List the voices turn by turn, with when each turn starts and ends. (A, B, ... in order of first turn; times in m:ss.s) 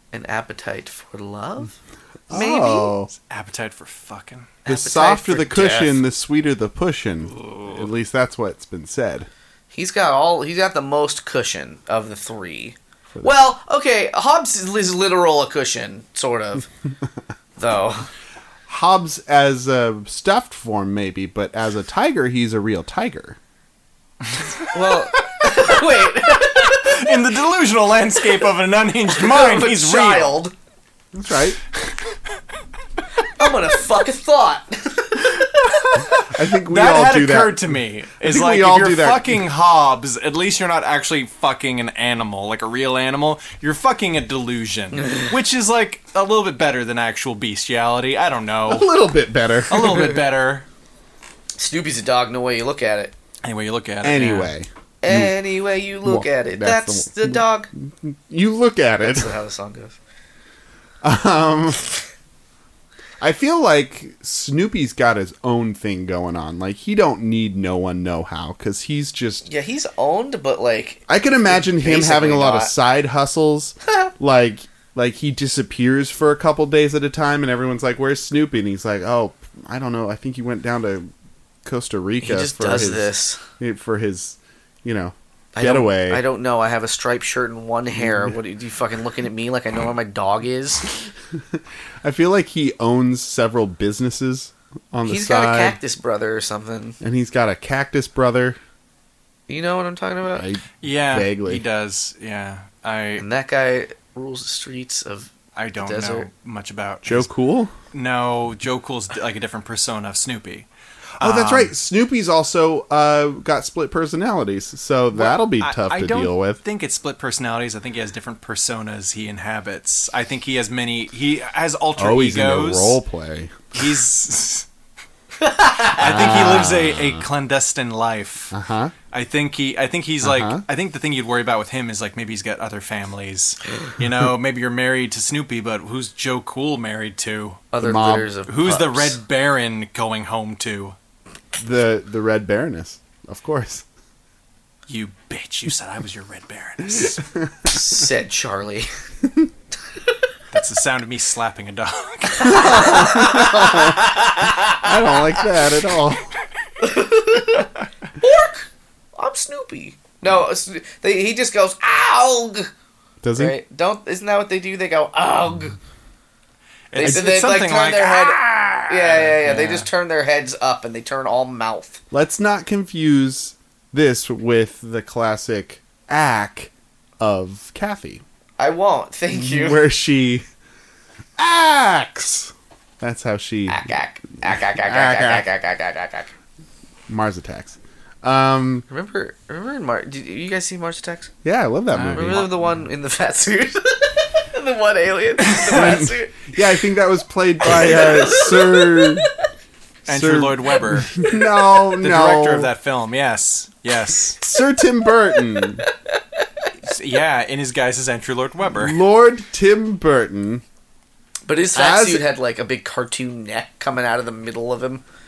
0:00.1-0:01.8 A
0:02.3-0:03.1 B
0:02.3-0:02.9 A
0:03.1-0:04.5 C
0:04.6-0:06.0 A
0:04.7-0:09.3 B
0:09.7-0:16.7 A
0:17.6-0:18.1 A
0:18.7-0:23.4 B
0:24.7-0:25.2 C
0:24.7-0:27.1 A
0:26.4-0:30.3 C
0:29.1-0:30.5 A
0:31.1-0:31.6 B
0:33.2-0:36.1 A
0:36.0-0:49.0 C
0:36.2-0:39.4 B
0:48.7-0:50.1 B
0:49.7-0:50.7 C
0:51.6-0:53.1 A
0:53.4-0:54.5 C
0:54.0-0:55.4 B
0:55.0-0:57.7 A
0:56.0-0:59.3 B
0:59.0-1:00.0 A
1:01.0-1:01.8 B
1:03.2-1:09.4 B
1:09.4-1:12.7 A
1:11.1-1:21.1 B
1:21.6-1:26.2 B
1:22.2-1:23.4 A
1:25.5-1:30.9 A
1:28.0-1:28.3 B
1:32.0-1:35.8 B
1:35.0-1:37.0 A
1:37.0-1:38.6 B
1:39.5-1:40.5 A
1:40.3-1:41.6 B
1:40.8-1:43.3 C
1:43.2-1:46.3 A
1:45.6-1:47.3 C
1:47.0-1:47.7 B
1:47.9-1:50.7 C
1:51.2-1:51.7 C
1:51.2-1:56.6 B
1:55.1-2:03.0 C
2:02.0-2:03.7 B
2:03.7-2:04.7 C
2:05.4-2:06.3 A
2:05.9-2:08.5 C
2:06.0-2:07.2 B
2:08.5-2:08.9 B
2:09.1-2:17.7 C
2:10.2-2:10.6 B
2:17.7-2:19.2 A
2:17.8-2:18.3 B
2:18.5-2:21.0 C
2:21.6-2:23.8 B
2:24.9-2:27.2 C
2:27.2-2:27.7 B
2:27.7-2:28.9 A
2:30.5-2:33.0 C
2:32.4-2:35.2 A
2:32.4-2:34.1 B
2:34.7-2:36.3 B
2:36.8-2:42.7 A
2:43.2-2:43.6 B
2:43.4-2:45.8 A
2:46.9-2:49.9 C
2:47.0-2:52.0 A
2:47.0-2:47.2 B
2:52.1-2:58.2 B
2:58.6-2:59.8 A
2:59.3-3:00.4 B
3:01.4-3:03.8 B
3:03.7-3:06.3 A
3:04.8-3:05.5 B
3:07.1-3:08.9 B
3:08.9-3:11.3 A
3:11.4-3:12.5 B
3:11.9-3:12.6 C
3:12.1-3:16.5 A
3:15.4-3:16.0 C
3:15.7-3:19.3 B
3:17.6-3:19.3 A
3:20.1-3:21.3 C
3:20.1-3:22.7 B
3:22.0-3:24.4 C
3:24.4-3:25.9 B
3:25.8-3:26.7 A
3:26.8-3:29.0 C
3:28.8-3:30.6 B
3:31.4-3:35.0 A
3:31.8-3:32.2 B